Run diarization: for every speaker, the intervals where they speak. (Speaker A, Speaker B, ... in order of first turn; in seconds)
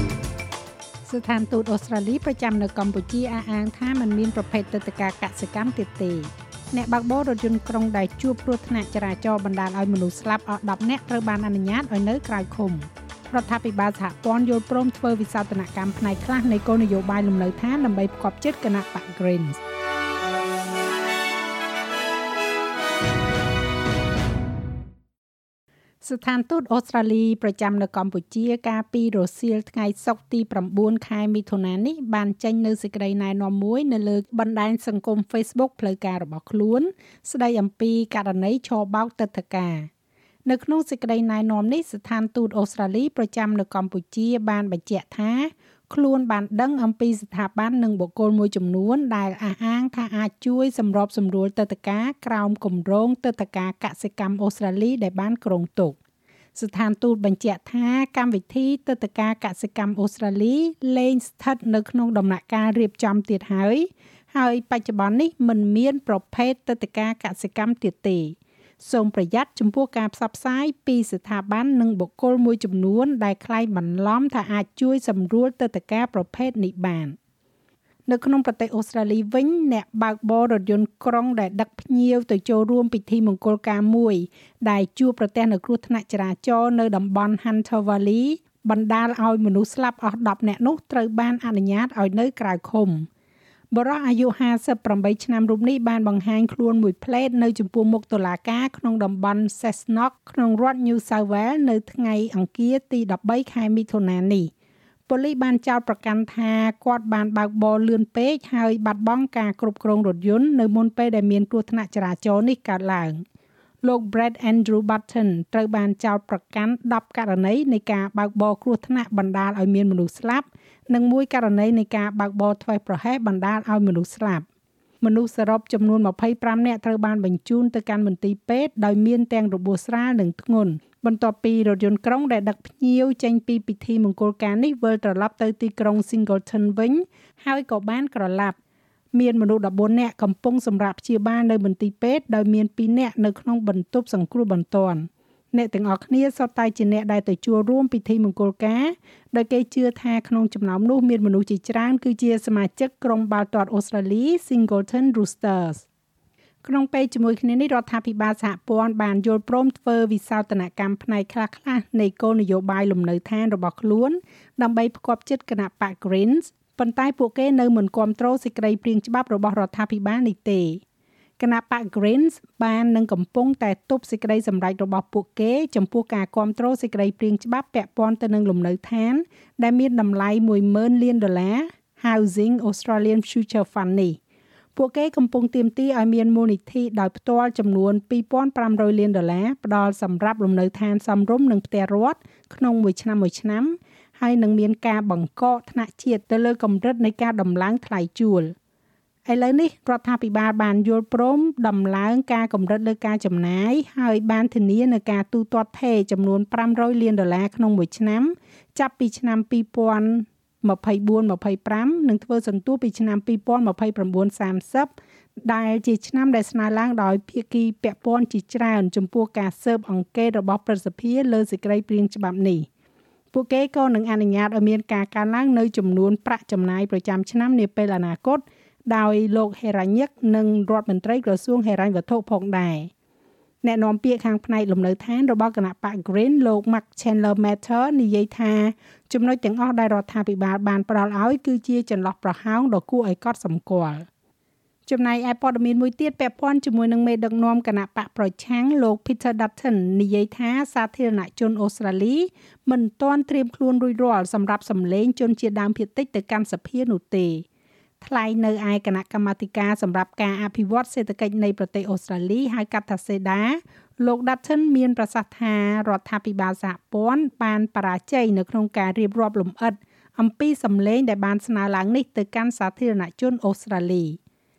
Speaker A: 1.1-19.6, 26.0-39.9, 40.5-56.0, 56.5-77.2, 78.1-93.1, 93.7-104.5, 105.1-113.2, 113.8-124.5, 125.0-138.6, 139.1-155.9, 156.6-170.8, 171.4-184.2, 184.8-198.6, 199.3-214.9, 215.4-222.7, 223.3-232.9, 233.6-244.1, 244.9-257.4, 258.0-274.2